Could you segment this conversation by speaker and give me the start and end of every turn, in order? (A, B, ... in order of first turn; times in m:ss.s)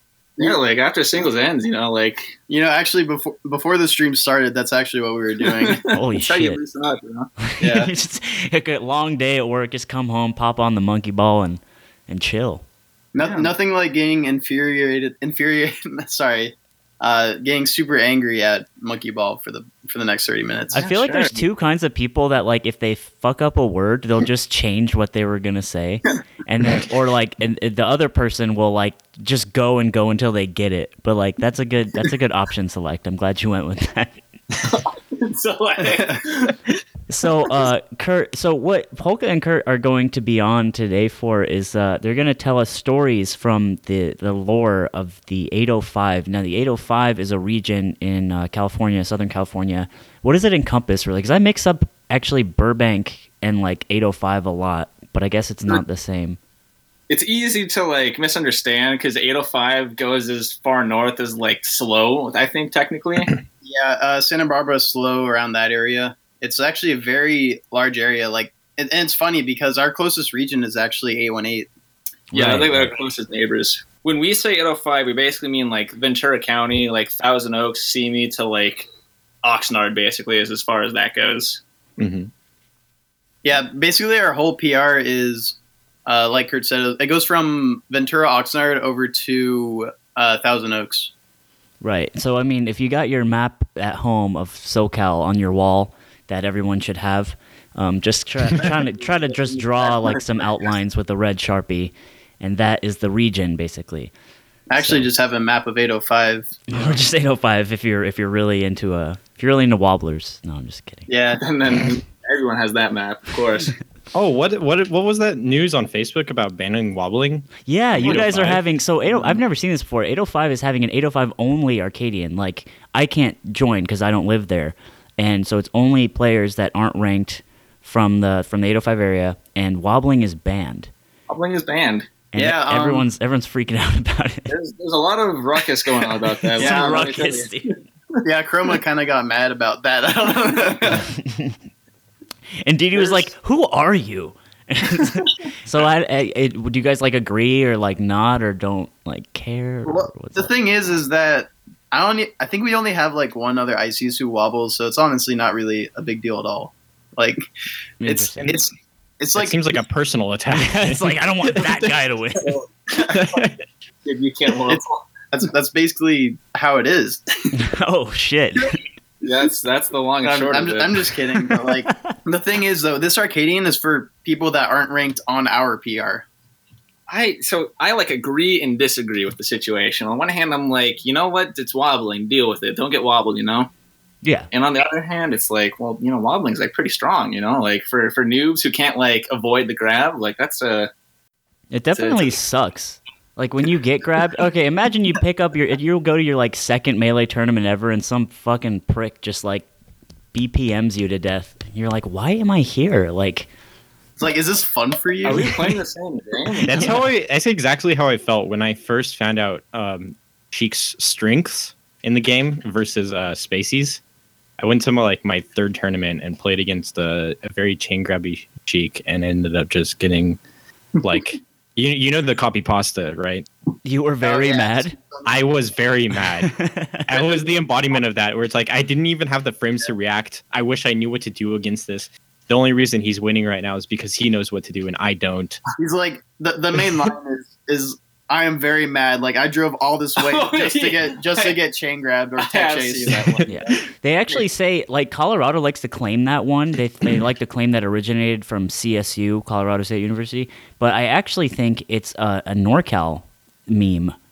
0:00.4-0:02.3 A
0:02.5-0:05.8 B
0:05.5-0:07.9 A
0:05.9-0:06.6 C
0:07.4-0:12.6 C
0:13.1-0:20.8 B
0:13.2-0:13.5 A
0:20.7-0:21.4 A
0:20.7-0:34.2 C
0:34.6-0:36.6 A
0:35.9-0:36.2 B
0:37.1-0:56.4 C
0:57.1-1:03.3 A
1:03.6-1:11.7 B
1:12.3-1:12.9 C
1:12.3-1:18.9 A
1:12.4-1:12.8 D
1:19.4-1:21.6 A
1:22.0-1:22.3 D
1:23.4-1:31.1 B
1:31.8-1:44.1 C
1:44.7-1:47.0 B
1:44.8-1:45.1 C
1:46.7-1:51.1 C
1:51.1-1:51.4 B
1:51.4-1:53.7 A
1:54.1-1:58.6 D
1:57.6-2:10.9 C
2:11.3-2:12.1 A
2:12.3-2:14.5 C
2:12.4-2:13.1 B
2:14.5-2:17.7 A
2:16.6-2:17.8 C
2:16.6-2:17.1 B
2:18.2-2:21.1 B
2:20.9-2:21.6 C
2:22.6-2:30.5 C
2:22.9-2:23.2 B
2:29.8-2:37.4 B
2:38.0-2:38.6 C
2:38.0-2:39.6 B
2:39.3-2:41.2 D
2:40.5-2:42.6 C
2:43.0-2:43.6 D
2:44.0-2:45.0 A
2:44.7-2:47.2 B
2:47.5-2:48.8 C
2:49.2-2:51.1 A
2:50.2-2:56.2 B
2:51.8-2:52.1 C
2:57.1-3:03.7 A
3:04.5-3:10.9 A
3:11.7-3:19.7 C
3:12.0-3:12.4 A
3:20.3-3:23.5 C
3:24.2-3:25.5 B
3:25.2-3:27.0 A
3:26.6-3:34.0 D
3:34.6-3:40.4 D
3:41.0-3:43.4 D
3:43.8-3:45.0 C
3:44.2-3:45.4 B
3:45.2-3:46.6 D
3:46.4-3:47.1 C
3:47.1-3:55.6 D
3:55.7-4:03.9 B
4:00.2-4:01.6 A
4:02.4-4:03.5 A
4:03.5-4:14.1 C